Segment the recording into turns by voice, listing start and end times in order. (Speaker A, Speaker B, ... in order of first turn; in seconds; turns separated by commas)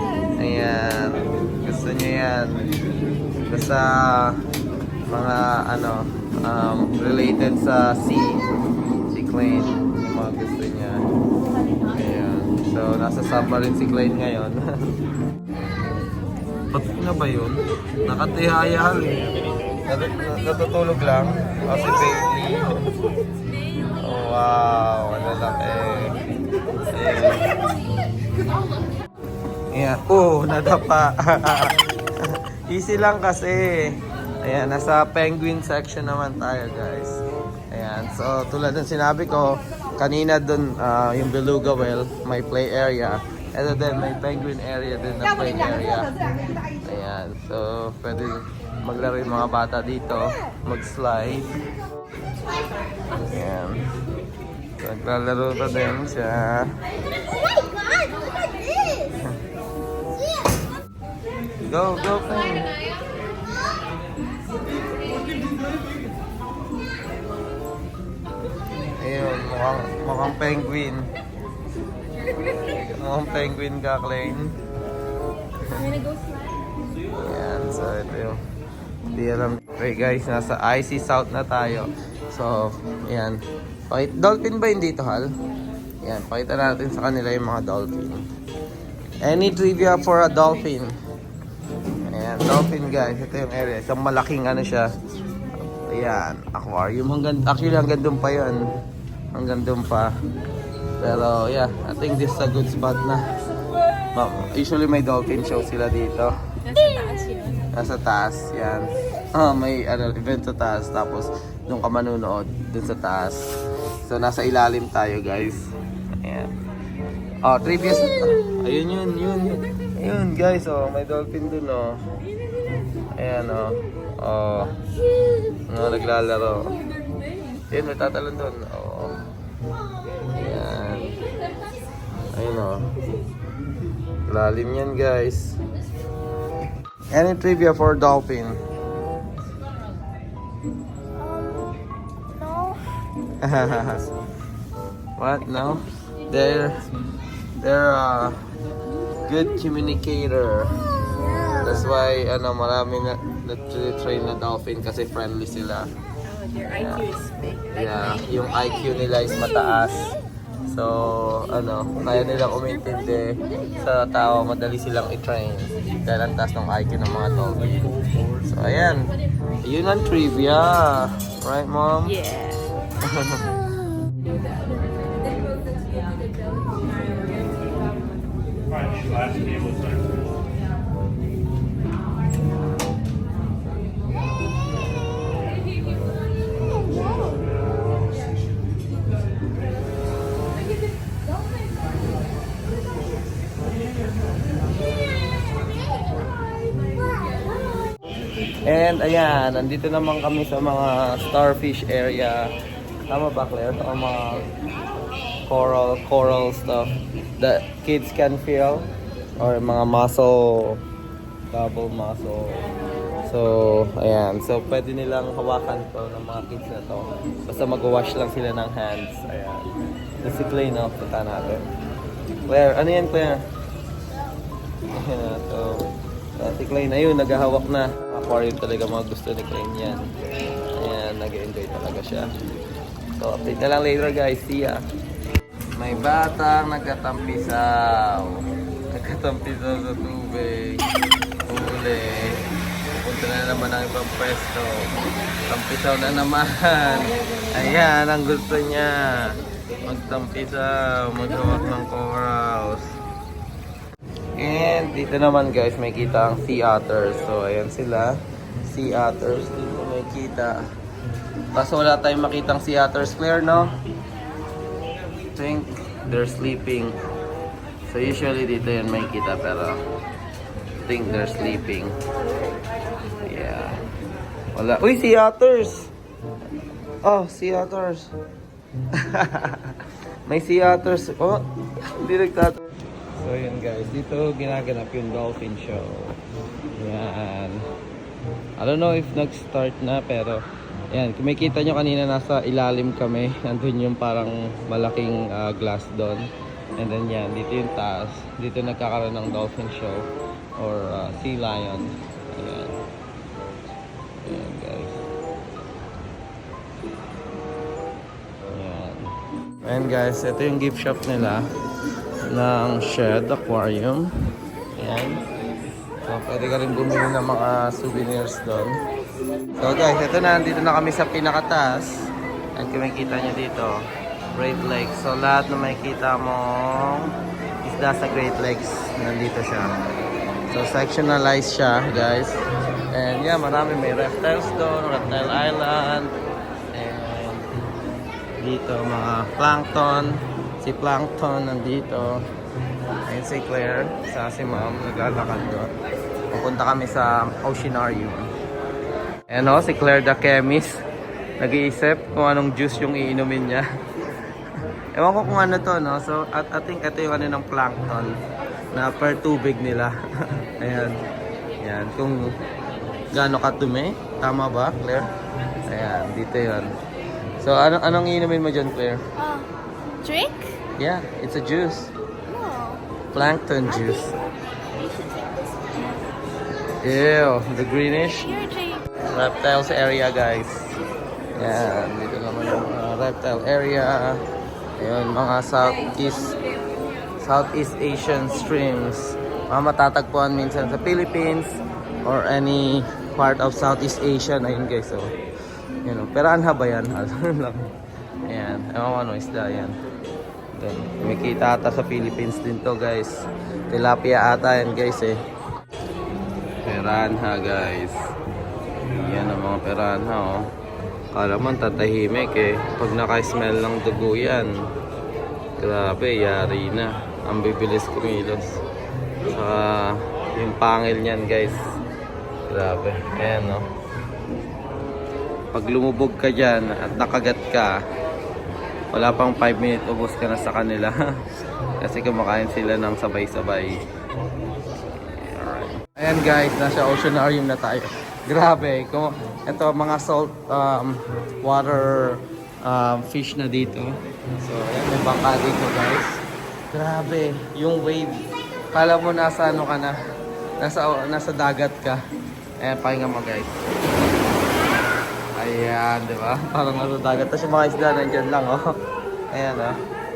Speaker A: 0.4-2.7, Speaker A: 3.5-4.4, Speaker A: 5.1-8.4, Speaker A: 9.1-11.0, Speaker A: 11.9-14.6, Speaker A: 16.7-19.3, Speaker A: 19.9-22.9, Speaker A: 24.0-26.2, Speaker A: 26.9-27.6, Speaker A: 29.7-37.2, Speaker A: 37.7-46.1, Speaker A: 46.8-51.5, Speaker A: 53.1-53.9, Speaker A: 54.8-56.8, Speaker A: 61.7-62.7, Speaker A: 69.0-71.1, Speaker A: 72.8-74.5, Speaker B: 75.8-76.5, Speaker A: 77.1-78.4, Speaker A: 79.1-85.3, Speaker A: 86.0-88.2, Speaker A: 89.2-90.9, Speaker A: 92.1-94.9, Speaker A: 95.5-98.6, Speaker A: 99.3-100.1, Speaker A: 101.0-103.4, Speaker A: 104.1-106.3, Speaker B: 106.6-107.7, Speaker A: 107.7-113.4, Speaker A: 114.1-115.7, Speaker A: 116.2-116.5, Speaker A: 117.4-122.0, Speaker A: 123.2-124.7, Speaker A: 125.7-126.7, Speaker A: 127.7-129.2, Speaker A: 130.3-131.2, Speaker A: 132.3-132.9, Speaker A: 134.3-135.6, Speaker A: 137.1-138.6, Speaker A: 143.4-144.1, Speaker A: 145.2-146.9, Speaker A: 147.6-148.4, Speaker A: 149.3-150.7, Speaker C: 151.3-151.6, Speaker A: 151.6-155.9, Speaker B: 156.2-158.3, Speaker A: 156.7-157.1, Speaker A: 157.7-160.1, Speaker A: 160.7-172.2, Speaker C: 172.2-172.6, Speaker A: 173.0-173.4, Speaker A: 198.7-202.5, Speaker A: 203.1-204.4, Speaker A: 205.5-210.8, Speaker A: 211.5-212.7, Speaker A: 213.2-219.7, Speaker A: 220.2-221.7, Speaker A: 222.5-223.4, Speaker A: 224.9-225.8, Speaker A: 226.4-230.1, Speaker A: 230.8-232.3, Speaker A: 233.2-234.8, Speaker A: 235.8-238.4, Speaker A: 238.9-240.9, Speaker A: 241.5-242.4, Speaker A: 243.0-244.9, Speaker A: 245.5-252.9, Speaker A: 254.4-260.6, Speaker A: 261.5-263.7, Speaker A: 265.3-266.9, Speaker A: 267.9-269.8, Speaker A: 270.8-271.9, Speaker A: 273.2-273.8, Speaker A: 274.5-275.9, Speaker A: 277.0-278.1, Speaker A: 278.9-282.6, Speaker A: 283.2-286.2, Speaker A: 286.8-287.6, Speaker A: 288.6-300.1, Speaker A: 300.6-302.8, Speaker A: 304.2-305.0, Speaker A: 308.5-309.1, Speaker A: 309.6-311.4, Speaker A: 312.3-314.1, Speaker A: 314.8-315.2, Speaker A: 316.0-318.8, Speaker A: 319.6-323.7, Speaker A: 324.3-327.1, Speaker A: 327.6-329.8, Speaker A: 330.5-332.4, Speaker A: 332.9-336.1, Speaker A: 336.7-337.5, Speaker A: 338.4-342.2, Speaker A: 343.1-345.7, Speaker A: 346.3-348.3, Speaker A: 349.3-350.8, Speaker A: 351.4-353.6, Speaker A: 354.9-358.2, Speaker A: 358.7-360.0, Speaker A: 360.6-361.0, Speaker A: 361.6-362.3, Speaker A: 363.1-365.1, Speaker A: 365.7-366.7, Speaker A: 367.4-369.0, Speaker C: 369.2-369.5, Speaker C: 370.0-370.6, Speaker A: 370.8-371.9, Speaker C: 372.3-372.8, Speaker A: 373.1-374.1, Speaker C: 373.7-374.0, Speaker C: 374.8-376.3, Speaker A: 376.8-378.3, Speaker C: 378.2-378.9, Speaker A: 379.0-380.8, Speaker A: 381.4-384.2, Speaker A: 384.8-386.4, Speaker A: 387.2-391.5, Speaker A: 392.0-395.1, Speaker A: 395.9-397.6, Speaker A: 398.3-399.7, Speaker A: 400.6-403.1, Speaker A: 403.7-405.2, Speaker A: 406.6-408.0, Speaker A: 408.9-410.5, Speaker A: 411.1-414.5, Speaker A: 415.6-418.6, Speaker A: 419.3-421.6, Speaker A: 422.5-423.6, Speaker A: 425.5-427.8, Speaker A: 428.9-431.0, Speaker A: 431.8-433.8, Speaker A: 435.2-448.1, Speaker A: 448.7-450.0, Speaker A: 450.6-452.0, Speaker A: 452.6-453.9, Speaker A: 455.4-458.6, Speaker A: 459.3-459.8